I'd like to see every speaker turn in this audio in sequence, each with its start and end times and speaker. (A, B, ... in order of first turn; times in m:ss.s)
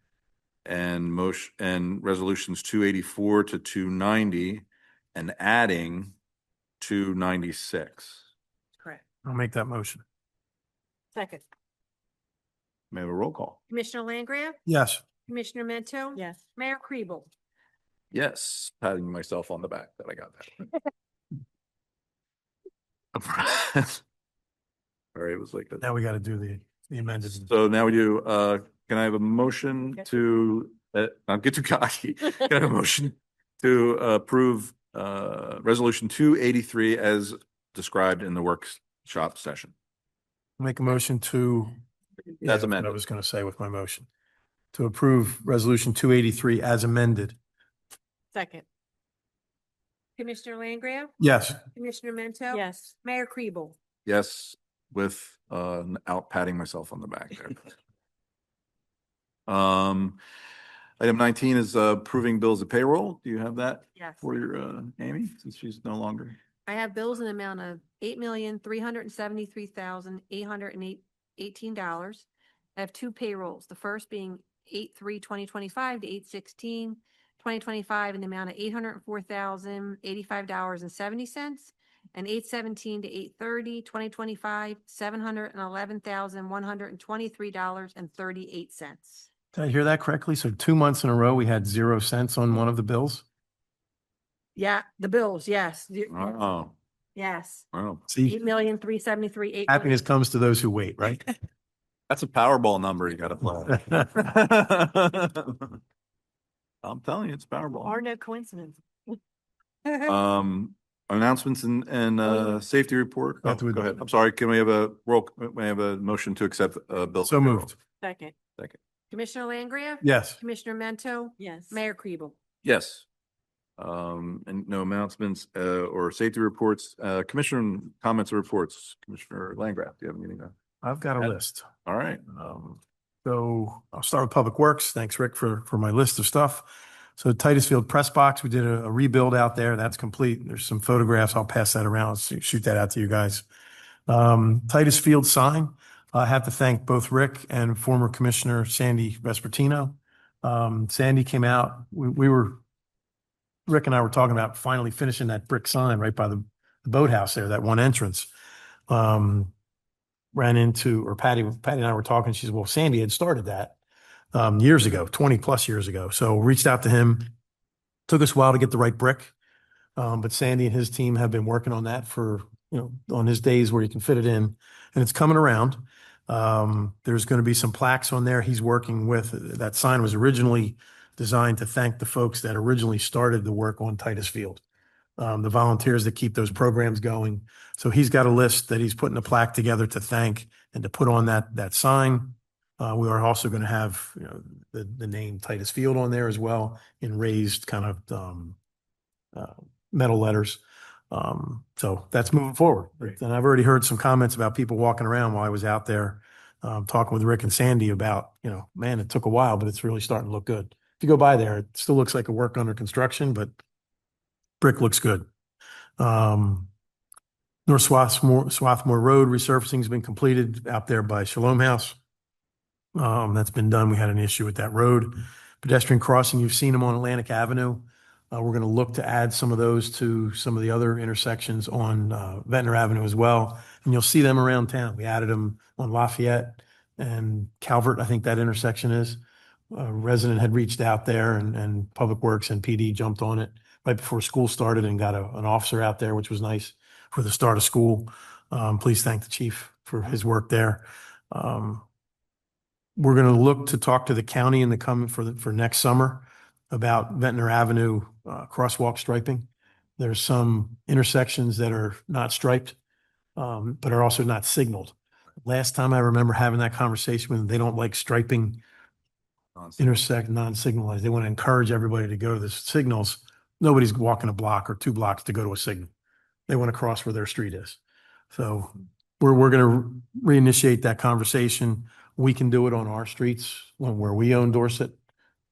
0:00.6-0:06.1 A
0:06.8-0:08.2 A
0:09.2-0:10.0 B
0:11.1-0:11.4 C
0:12.9-0:13.6 A
0:13.7-0:14.6 D
0:14.6-0:15.0 B
0:15.3-0:17.3 D
0:18.1-0:20.7 A
0:23.1-0:24.0 A
0:25.1-0:25.8 A
0:25.8-0:27.5 B
0:27.3-0:39.7 A
0:40.6-0:41.8 B
0:42.4-0:44.1 B
0:42.4-0:43.0 A
0:44.7-0:47.4 B
0:48.3-0:48.6 C
0:50.2-0:51.1 D
0:51.2-0:51.6 B
0:51.8-0:53.8 D
0:52.5-0:53.0 C
0:54.0-0:57.7 A
0:59.5-1:00.2 A
1:01.0-1:06.4 A
1:04.0-1:04.2 D
1:06.7-1:29.3 D
1:29.5-1:33.2 B
1:34.6-1:36.4 D
1:36.1-1:36.8 A
1:37.2-1:37.6 D
1:37.7-1:38.0 A
1:38.1-1:38.4 B
1:38.2-1:40.0 D
1:39.7-1:41.3 B
1:42.1-1:45.8 A
1:46.8-1:48.0 A
1:47.8-1:49.2 C
1:50.0-1:57.7 A
1:53.4-1:54.0 B
1:57.2-1:57.8 B
1:58.0-1:58.3 C
1:59.1-2:02.4 D
2:00.0-2:00.4 B
2:01.4-2:01.8 C
2:02.6-2:03.1 A
2:03.8-2:10.5 A
2:10.8-2:11.7 B
2:11.8-2:12.2 A
2:12.3-2:23.4 B
2:24.1-2:32.6 B
2:33.7-2:38.3 B
2:38.9-2:39.5 B
2:40.3-2:43.8 B
2:44.3-2:47.3 B
2:48.1-2:49.3 B
2:50.0-3:04.6 B
3:05.2-3:18.6 B
3:19.3-3:33.5 B
3:34.6-3:35.2 B
3:36.0-3:36.7 B
3:37.7-3:42.0 B
3:42.9-4:11.8 B
4:13.0-4:19.5 B
4:20.0-4:22.8 B
4:23.4-4:28.6 B
4:29.6-4:29.9 A
4:29.8-4:35.9 B
4:36.5-4:37.8 B
4:38.3-4:44.9 B